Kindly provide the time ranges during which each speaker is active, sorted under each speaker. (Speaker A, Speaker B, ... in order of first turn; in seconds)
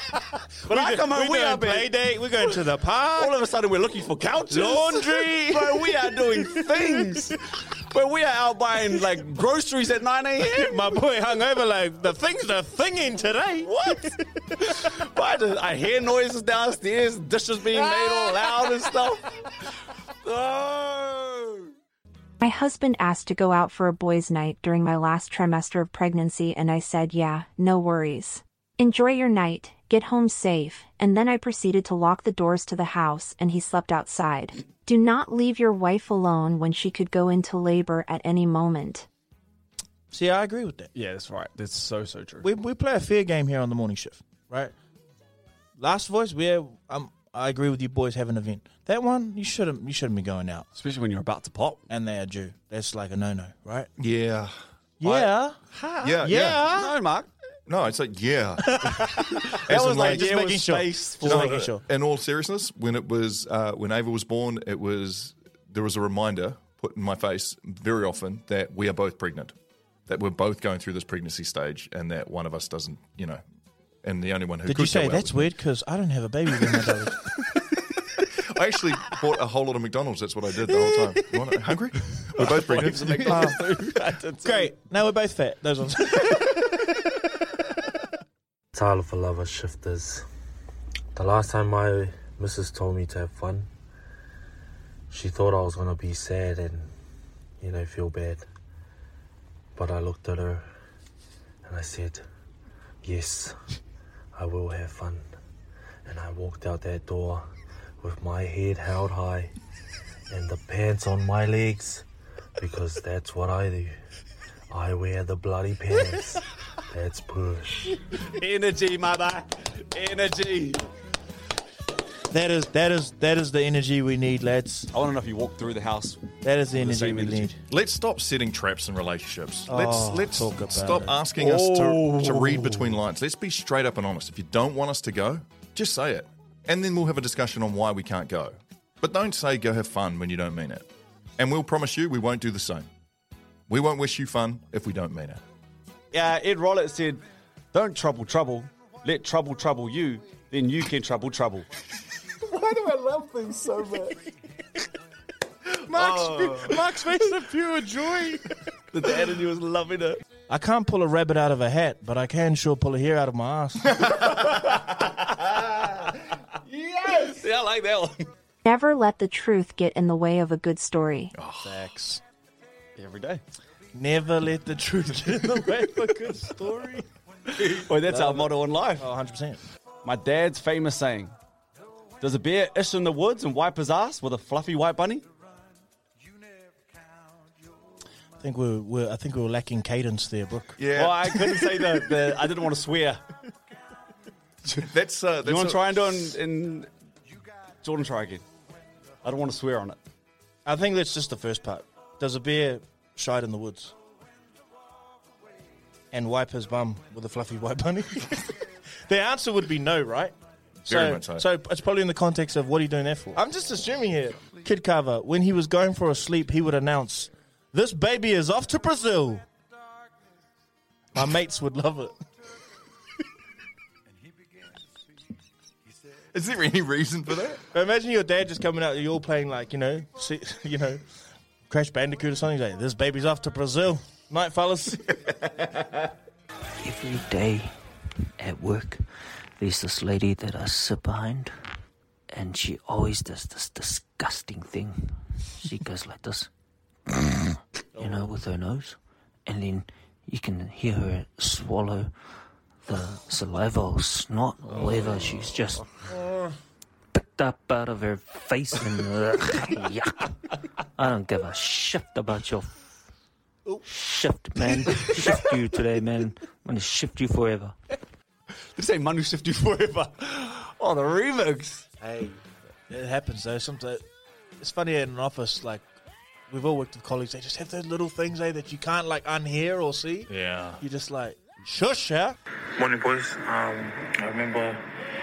Speaker A: 0.7-1.9, 3.2-7.4, 7.9-10.9, 13.7-19.3, 20.2-21.6, 40.9-42.4, 50.7-51.8, 55.0-57.3, 59.7-61.5, 82.4-84.7, 118.3-120.9, 124.9-126.2, 126.8-127.5, 146.1-151.7, 155.9-156.8, 158.9-160.2, 164.2-166.1, 167.1-168.3, 172.9-173.4, 177.7-179.0, 180.0-181.3, 182.2-185.2, 190.9-193.2, 195.4-196.9, 197.8-198.4, 199.2-200.0, 268.8-272.3
Speaker B: 0.7-3.3, 4.5-5.8, 10.6-13.7, 17.8-18.7, 40.1-40.9, 42.4-44.7, 45.8-50.7, 51.9-53.9, 55.0-55.5, 56.2-56.9, 58.6-61.8, 74.7-77.1, 83.3-83.6, 84.4-86.5, 122.3-124.9, 126.4-127.6, 129.7-131.2, 155.9-158.4, 160.5-163.9, 171.7-172.2, 173.9-177.1, 178.1-179.6, 188.4-190.8, 200.7-203.9, 206.1-208.5, 209.1-210.3, 210.9-219.4, 221.1-222.1, 227.7-231.0, 231.7-235.0, 272.9-274.0, 274.6-275.9, 276.5-282.4
Speaker C: 22.4-39.1, 168.6-171.3
Speaker D: 54.0-54.5, 56.0-56.7, 57.7-58.8, 59.7-60.2, 61.2-69.5, 70.0-73.4, 74.0-75.5, 78.5-83.6, 127.7-142.9, 143.7-145.4, 171.3-171.7, 190.8-191.2, 194.8-195.8, 210.9-211.4, 226.3-227.6, 280.3-280.8
Speaker E: 88.7-90.2, 91.1-93.7, 95.1-96.9, 97.6-98.5, 99.7-100.7, 101.6-102.2, 103.0-103.6, 104.4-105.3, 106.0-109.5, 110.3-112.0, 112.6-113.9, 114.7-118.0
Speaker F: 236.8-237.7, 238.4-239.0, 239.6-241.5, 242.3-246.5, 248.0-252.1, 252.8-255.9, 257.1-260.1, 261.0-262.7, 263.9-267.7
Speaker G: 282.8-284.9